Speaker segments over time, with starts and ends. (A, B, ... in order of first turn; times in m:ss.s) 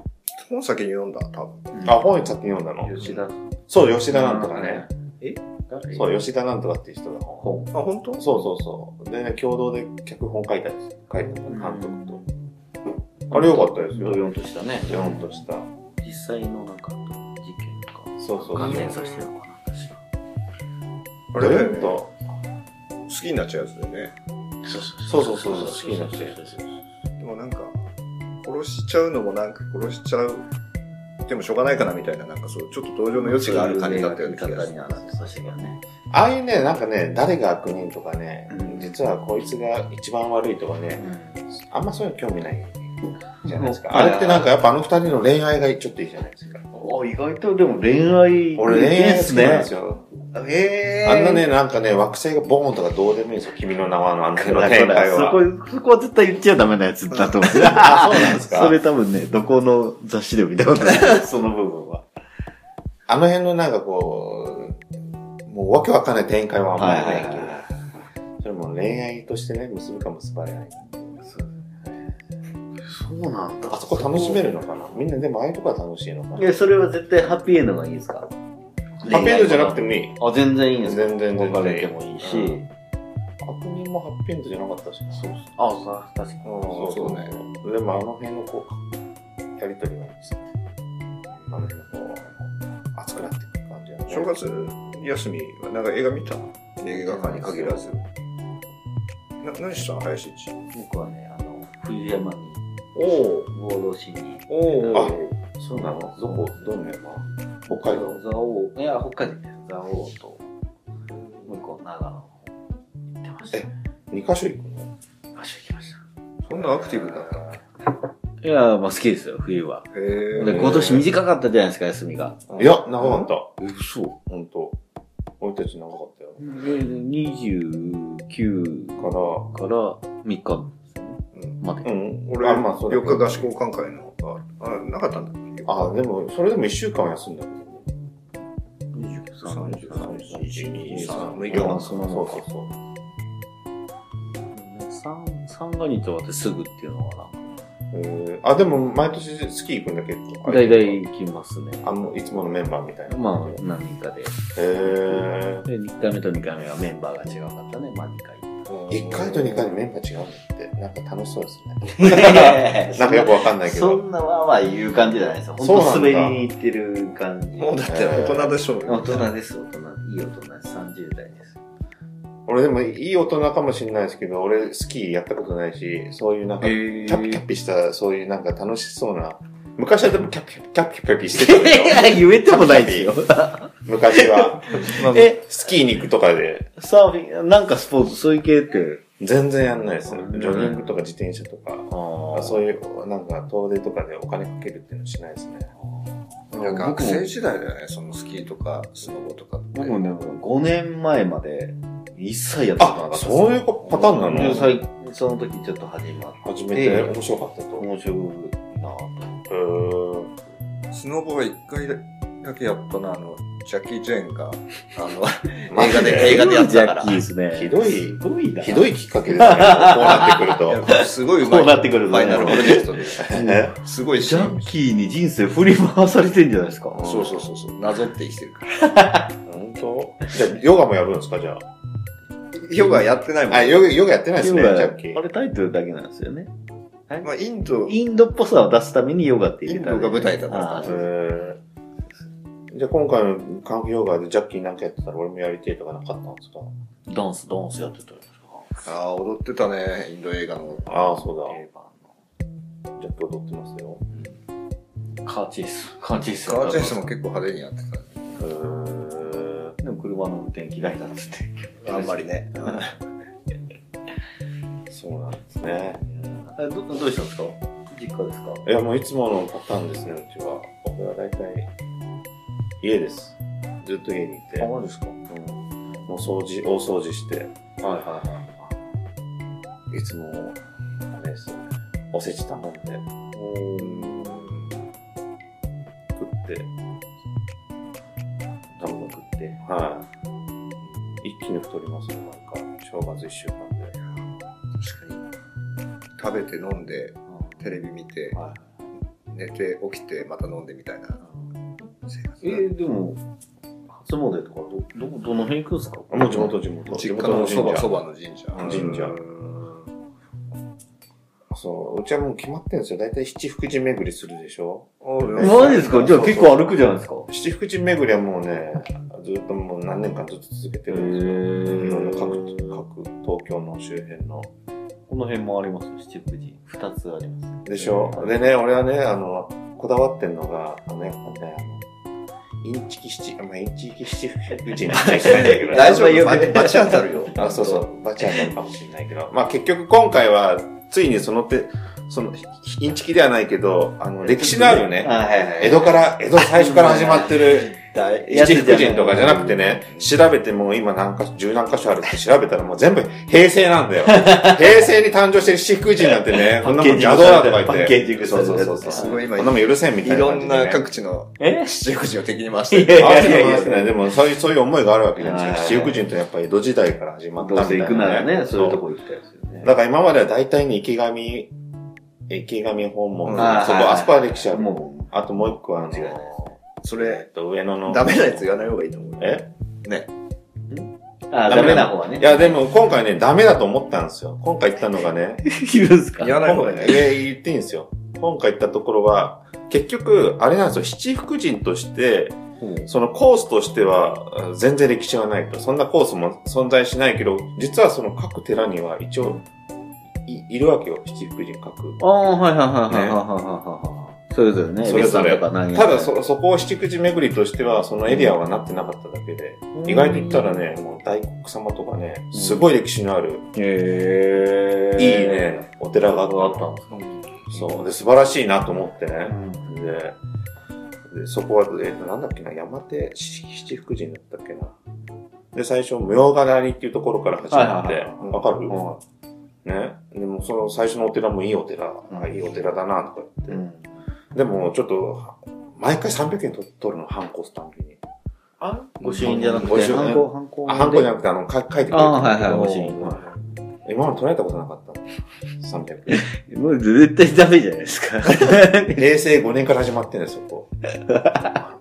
0:00.4-0:01.7 A
0:01.7-0:02.0 B
0:01.8-0:03.0 C
0:02.8-0:03.5 B
0:03.7-0:04.8 C
0:04.1-0:06.1 B
0:05.9-0:07.5 C
0:07.4-0:07.7 B
0:07.7-0:08.3 A
0:08.2-0:12.2 C
0:11.2-0:12.3 B
0:13.3-0:14.2 C
0:13.3-0:15.4 B
0:14.8-0:15.7 C
0:16.0-0:20.0 B
0:18.2-0:19.0 C
0:18.6-0:19.2 A
0:21.3-0:22.0 A
0:21.3-0:22.2 C
0:23.1-0:24.1 A
0:24.6-0:26.7 B
0:25.1-0:26.4 C
0:27.2-0:27.8 A
0:28.4-0:30.4 A
0:31.3-0:35.3 A
0:33.2-0:35.8 B
0:36.1-0:46.6 C
0:38.5-0:38.9 B
0:41.0-0:41.4 B
0:43.4-0:44.5 B
0:46.7-0:49.7 B
0:48.6-0:50.1 C
0:50.3-0:51.4 B
0:51.0-0:55.4 C
0:54.4-1:02.0 B
0:57.6-0:58.8 C
1:03.1-1:04.8 C
1:05.5-1:07.7 C
1:06.8-1:07.7 B
1:08.4-1:11.3 C
1:11.3-1:12.0 B
1:12.8-1:14.5 B
1:13.7-1:16.6 C
1:16.4-1:18.3 B
1:19.0-1:22.7 B
1:19.1-1:20.2 C
1:20.8-1:22.6 C
1:23.4-1:25.3 C
1:25.1-1:26.7 B
1:26.4-1:27.3 A
1:26.8-1:28.8 C
1:29.6-1:30.4 C
1:31.5-1:34.3 C
1:34.1-1:38.0 A
1:37.0-1:37.9 B
1:39.4-1:40.6 A
1:40.7-1:42.6 B
1:43.0-1:43.5 A
1:43.5-1:46.7 B
1:44.5-1:45.3 A
1:44.9-1:48.2 C
1:47.7-1:50.4 B
1:51.1-1:51.5 A
1:51.5-1:52.5 B
1:53.2-1:53.7 B
1:53.5-1:54.9 C
1:55.4-1:56.0 B
1:56.4-1:57.5 A
1:58.4-2:02.4 B
1:59.9-2:00.8 A
2:00.4-2:01.1 C
2:02.5-2:03.3 A
2:02.6-2:03.5 C
2:03.6-2:04.2 B
2:04.3-2:04.8 C
2:05.4-2:06.4 C
2:06.4-2:11.9 B
2:09.0-2:09.5 C
2:11.8-2:13.5 C
2:12.3-2:16.0 A
2:15.7-2:17.9 C
2:18.9-2:22.4 B
2:19.4-2:22.0 A
2:19.9-2:22.8 C
2:24.5-2:27.5 B
2:27.9-2:31.0 C
2:30.5-2:31.9 B
2:31.8-2:33.6 C
2:33.1-2:38.5 B
2:34.6-2:35.7 C
2:38.7-2:39.7 A
2:38.9-2:44.0 C
2:41.9-2:48.3 B
2:45.6-2:46.4 C
2:47.6-2:49.3 A
2:47.8-2:48.6 C
2:48.9-2:51.6 B
2:52.5-3:03.2 C
2:56.6-2:57.4 B
3:01.3-3:05.4 B
3:03.8-3:06.7 C
3:04.9-3:05.3 A
3:06.8-3:09.0 B
3:09.2-3:15.7 C
3:10.1-3:10.9 B
3:11.9-3:12.6 B
3:16.5-3:17.3 B
3:16.5-3:20.0 A
3:19.7-3:27.2 B
3:22.8-3:24.7 C
3:23.9-3:24.6 A
3:26.4-3:27.9 C
3:27.8-3:29.5 B
3:29.5-3:30.3 C
3:30.9-3:37.2 A
3:35.7-3:36.4 C
3:35.8-3:47.1 B
3:37.5-3:40.8 C
3:40.6-3:44.7 A
3:42.5-3:43.7 C
3:46.9-3:47.5 C
3:47.0-3:48.8 A
3:48.8-3:49.4 B
3:49.5-3:51.7 C
3:52.6-3:54.0 A
3:53.5-3:55.2 C
3:54.4-3:56.5 B
3:57.2-3:58.0 A
3:57.8-4:01.0 B
3:59.7-4:01.1 A
4:00.8-4:01.6 C
4:02.7-4:06.7 C
4:07.1-4:08.8 B
4:08.8-4:10.9 A
4:10.7-4:12.1 B
4:10.9-4:11.6 C
4:13.0-4:14.0 C
4:15.2-4:17.1 B
4:16.4-4:18.3 A
4:18.4-4:19.8 C
4:19.8-4:22.9 B
4:21.8-4:22.9 A
4:24.9-4:26.0 C
4:26.2-4:28.7 B
4:28.6-4:31.7 C
4:32.8-4:34.7 C
4:34.6-4:35.2 B
4:35.3-4:37.5 C
4:37.8-4:38.6 B
4:39.9-4:43.0 C
4:43.3-4:44.5 B
4:43.8-4:44.7 A
4:46.2-4:46.7 C
4:48.7-4:49.6 B
4:48.8-4:50.1 C
4:51.2-4:53.9 C
4:54.8-4:55.2 A
4:56.2-4:58.4 A
4:58.3-4:58.7 B
4:59.3-5:01.2 A
5:02.1-5:02.7 A
5:02.4-5:03.2 B
5:03.9-5:06.6 B
5:06.1-5:08.0 C
5:06.9-5:09.3 A
5:08.6-5:09.0 B
5:08.6-5:09.2 C
5:11.5-5:16.8 C
5:15.0-5:16.2 A
5:15.4-5:17.3 B
5:17.3-5:24.5 C
5:20.9-5:22.7 B
5:25.1-5:28.3 B
5:27.6-5:31.8 C
5:32.6-5:36.2 C
5:34.9-5:37.7 B
5:35.2-5:37.8 A
5:37.3-6:00.8 C
5:44.2-5:49.6 B
5:54.1-5:54.9 B
5:56.2-5:59.2 B
5:58.8-6:03.7 A
6:01.4-6:01.7 B
6:02.7-6:04.0 B
6:03.0-6:08.8 C
6:05.2-6:06.0 B
6:07.4-6:09.7 B
6:09.6-6:11.5 C
6:12.3-6:16.3 C
6:13.2-6:13.6 A
6:13.4-6:16.6 B
6:16.8-6:17.3 A
6:16.9-6:18.5 C
6:17.8-6:20.1 A
6:19.2-6:19.5 C
6:20.7-6:22.6 B
6:21.5-6:25.4 C
6:25.4-6:26.6 B
6:26.2-6:27.1 A
6:26.4-6:39.4 C
6:32.6-6:32.9 B
6:40.2-6:42.0 C
6:42.0-6:46.1 B
6:42.9-6:43.2 C
6:44.8-6:53.5 C
6:48.1-6:48.3 B
6:49.7-6:50.6 B
6:52.3-6:52.7 B
6:53.6-6:55.6 B
6:55.0-6:56.7 C
6:56.2-6:57.9 B
6:56.9-6:57.4 A
6:57.5-7:00.2 C
6:59.3-6:59.7 B
7:01.1-7:04.8 C
7:05.5-7:08.8 C
7:07.5-7:09.0 B
7:09.6-7:13.6 C
7:12.1-7:12.4 B
7:13.5-7:13.9 B
7:14.3-7:18.0 C
7:18.6-7:21.2 B
7:19.0-7:23.2 C
7:21.9-7:23.3 B
7:23.8-7:26.3 C
7:26.1-7:29.0 B
7:28.9-7:30.7 C
7:31.0-7:31.6 B